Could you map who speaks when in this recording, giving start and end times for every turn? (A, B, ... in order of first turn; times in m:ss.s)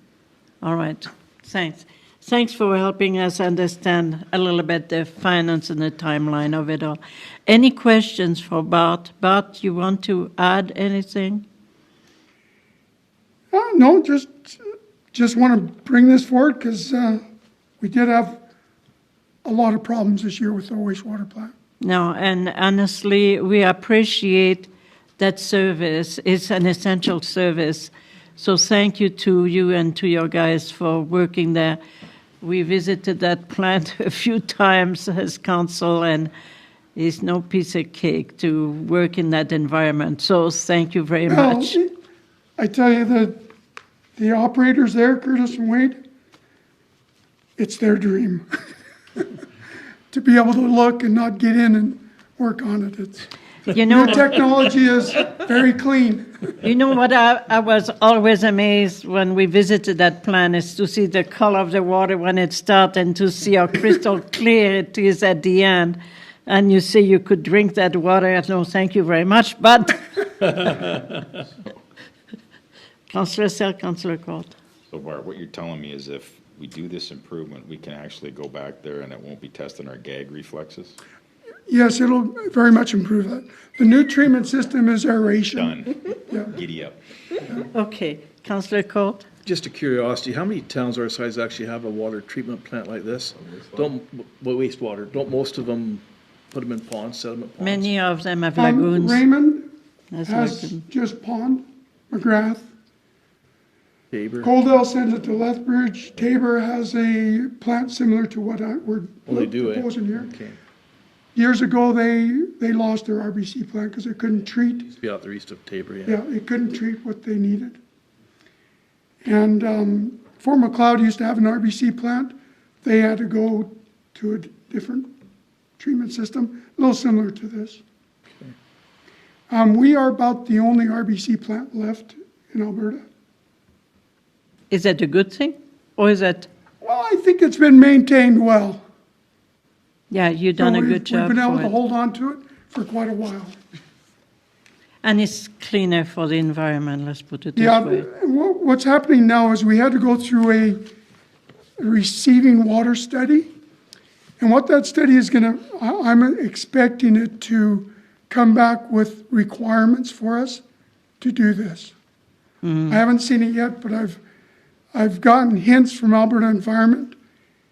0:00.6-0:11.4 A
0:13.5-0:14.6 B
0:15.1-0:17.2 B
0:17.8-0:18.4 B
0:19.4-0:21.5 B
0:21.8-0:31.8 A
0:32.4-0:36.3 A
0:37.0-0:41.8 A
0:41.3-0:41.9 B
0:42.6-0:43.4 B
0:44.2-0:46.0 B
0:47.6-0:48.5 B
0:50.1-0:56.6 B
0:53.7-0:54.4 A
0:56.6-1:10.7 A
1:13.1-1:14.5 A
1:14.9-1:21.0 C
1:21.7-1:25.8 B
1:25.5-1:27.0 C
1:26.3-1:26.5 B
1:27.6-1:29.3 A
1:29.4-1:37.9 D
1:37.6-1:39.2 A
1:38.6-1:39.7 B
1:40.1-1:40.8 A
1:40.2-1:42.7 B
1:44.1-1:44.5 D
1:44.4-1:50.3 B
1:49.3-1:50.6 D
1:51.4-1:54.9 B
1:54.9-1:56.2 D
1:56.1-1:57.8 B
1:59.2-2:05.1 B
2:05.8-2:07.8 B
2:09.5-2:13.0 B
2:14.7-2:16.5 A
2:16.8-2:18.8 B
2:20.1-2:21.7 A
2:20.6-2:23.6 B
2:25.0-2:28.1 A
2:27.6-2:30.8 B
2:31.8-2:33.5 B
2:34.4-2:40.6 B
2:41.2-2:41.9 B
2:42.6-2:43.0 A
2:42.9-2:44.2 B
2:44.9-2:47.2 B